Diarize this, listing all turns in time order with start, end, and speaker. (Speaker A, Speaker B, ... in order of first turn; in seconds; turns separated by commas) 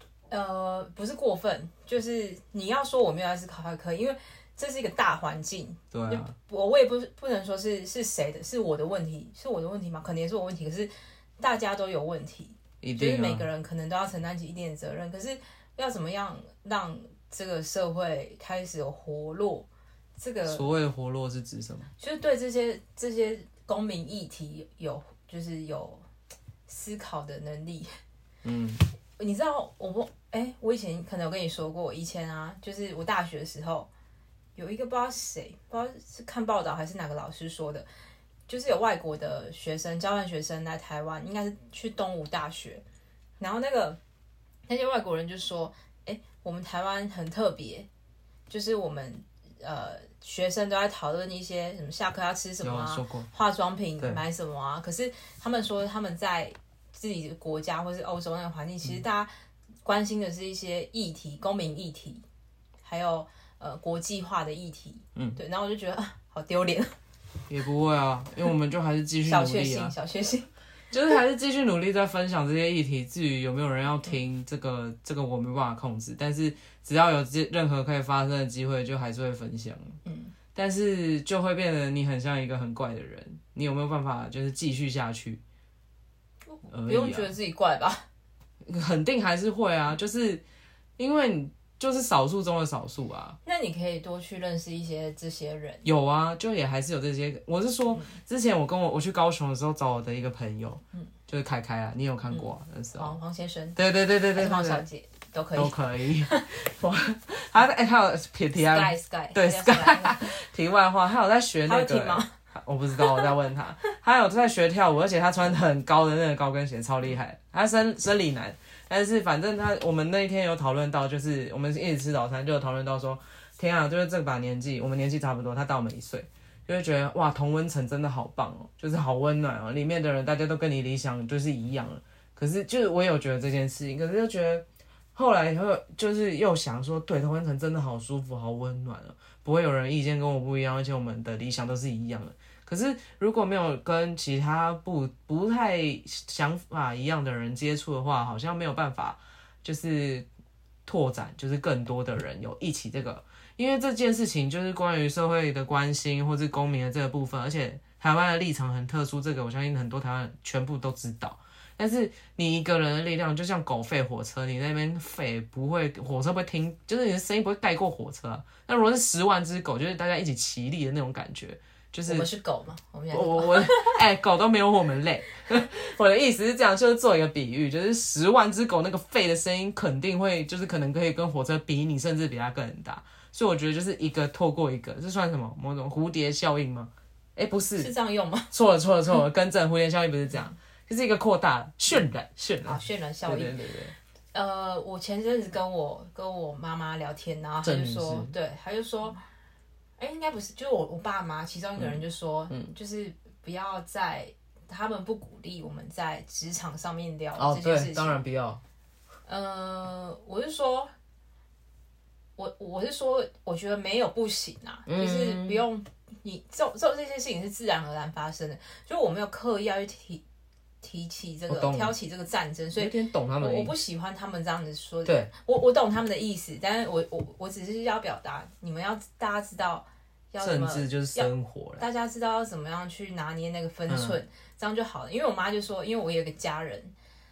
Speaker A: 0.3-20.7, Speaker B: 5.9-6.3, Speaker B: 12.8-13.4, Speaker B: 20.5-21.9, Speaker A: 22.0-26.0, Speaker A: 26.7-27.9, Speaker B: 28.4-28.8, Speaker A: 29.2-33.9, Speaker A: 34.5-37.9, Speaker A: 38.5-42.8, Speaker A: 43.4-44.0, Speaker A: 44.7-47.9, Speaker A: 48.5-59.3, Speaker B: 52.6-53.3, Speaker A: 59.8-62.2, Speaker A: 62.8-66.9, Speaker B: 67.5-69.9, Speaker A: 69.2-70.5, Speaker B: 70.9-80.0, Speaker A: 80.0-80.3, Speaker B: 80.5-85.4, Speaker A: 86.5-88.1, Speaker B: 86.7-87.3, Speaker B: 88.6-90.4, Speaker B: 91.0-93.4, Speaker A: 93.4-95.8, Speaker B: 95.8-103.1, Speaker A: 97.9-98.2, Speaker A: 102.3-103.8, Speaker B: 103.8-104.8, Speaker A: 104.3-106.5, Speaker B: 105.5-150.2, Speaker A: 108.5-110.4, Speaker A: 111.6-112.3, Speaker A: 113.0-113.3, Speaker B: 150.8-172.3, Speaker A: 172.1-174.0, Speaker B: 173.1-187.9, Speaker A: 187.8-188.5, Speaker B: 188.5-193.9, Speaker A: 192.6-193.6, Speaker A: 194.3-199.2, Speaker B: 197.6-198.3, Speaker A: 200.0-208.2, Speaker B: 201.8-202.7, Speaker B: 207.3-208.6, Speaker A: 209.2-210.9, Speaker A: 212.4-220.2, Speaker B: 214.9-215.6, Speaker A: 220.8-236.9, Speaker B: 221.5-221.9, Speaker B: 222.8-223.7, Speaker B: 230.4-231.8, Speaker B: 233.9-234.2